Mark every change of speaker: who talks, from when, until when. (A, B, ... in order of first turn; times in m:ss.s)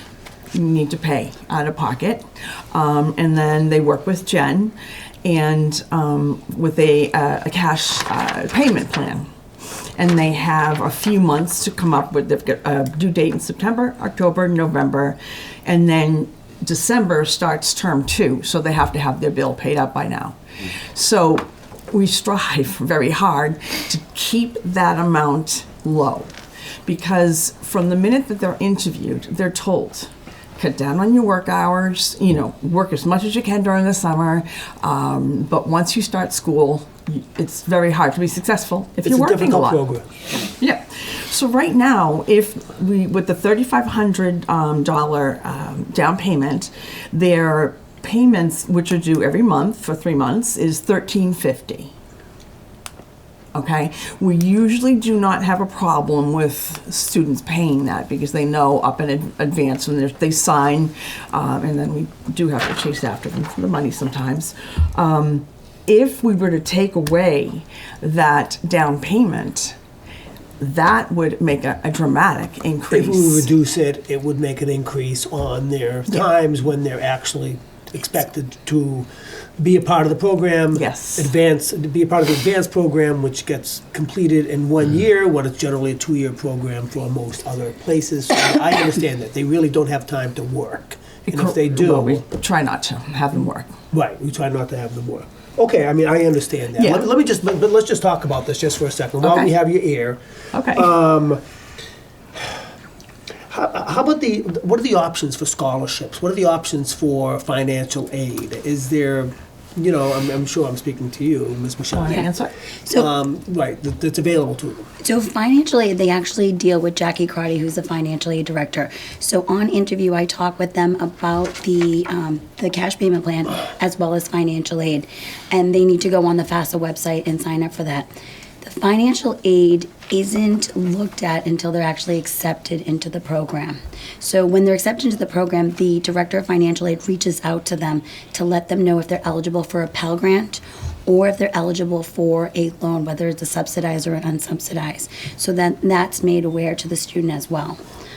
0:00.5-0:09.3 A
0:10.0-0:26.3 A
0:26.8-0:39.8 A
0:39.0-0:40.1 B
0:40.5-0:51.9 A
0:53.5-1:09.8 A
1:10.6-1:13.5 A
1:12.9-1:19.1 B
1:19.6-1:32.2 B
1:20.7-1:21.3 A
1:31.3-1:33.7 A
1:33.9-1:40.2 B
1:36.8-1:37.0 A
1:39.2-1:39.5 A
1:40.5-1:40.9 A
1:40.7-1:41.4 B
1:43.5-1:52.3 B
1:51.9-1:52.5 A
1:52.9-1:54.9 B
1:55.0-2:08.1 C
2:08.6-2:27.8 C